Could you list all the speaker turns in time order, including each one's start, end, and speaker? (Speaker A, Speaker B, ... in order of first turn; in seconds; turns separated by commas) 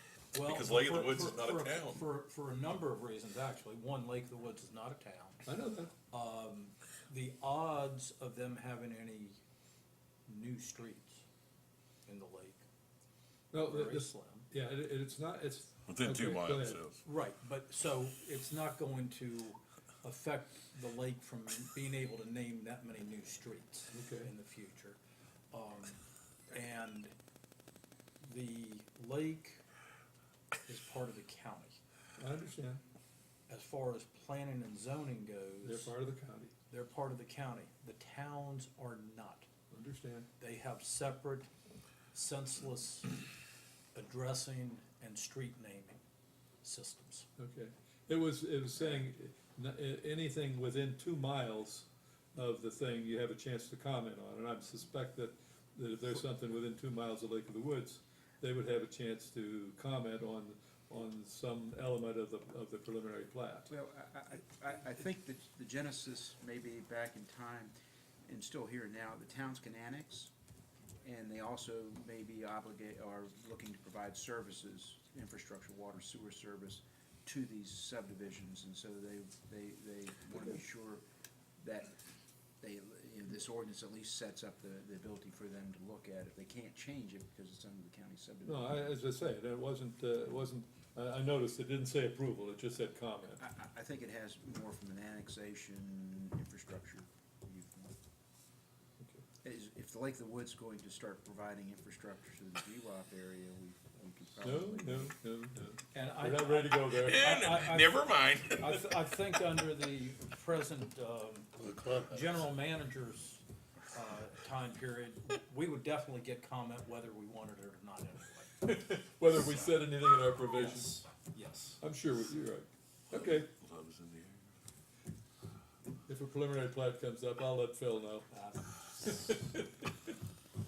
Speaker A: 0.3-5.5, Speaker B: 0.3-2.1, Speaker C: 5.5-5.9, Speaker A: 6.1-9.4, Speaker A: 10.3-11.2, Speaker A: 12.1-12.7, Speaker C: 13.5-16.8, Speaker A: 13.5-14.5, Speaker B: 15.9-17.0, Speaker A: 17.0-25.0, Speaker C: 23.9-24.3, Speaker A: 25.5-27.1, Speaker A: 28.2-29.6, Speaker A: 30.7-31.8, Speaker C: 32.2-32.8, Speaker A: 33.5-36.0, Speaker C: 35.6-36.5, Speaker A: 36.7-39.5, Speaker C: 39.7-40.3, Speaker A: 40.4-41.5, Speaker A: 42.1-43.2, Speaker A: 44.0-46.0, Speaker A: 46.6-47.3, Speaker C: 47.4-63.7, Speaker D: 63.7-67.7, Speaker D: 68.3-70.3, Speaker D: 71.0-81.0, Speaker D: 81.6-82.0, Speaker D: 82.6-89.0, Speaker C: 88.4-93.4, Speaker D: 93.4-98.0, Speaker D: 99.4-105.1, Speaker C: 104.4-107.3, Speaker A: 105.9-118.5, Speaker B: 107.0-108.8, Speaker B: 111.7-112.0, Speaker C: 118.6-121.0, Speaker A: 120.5-121.8, Speaker C: 121.8-123.5, Speaker B: 123.1-124.5, Speaker C: 126.1-128.4, Speaker A: 128.3-129.4, Speaker C: 129.1-129.7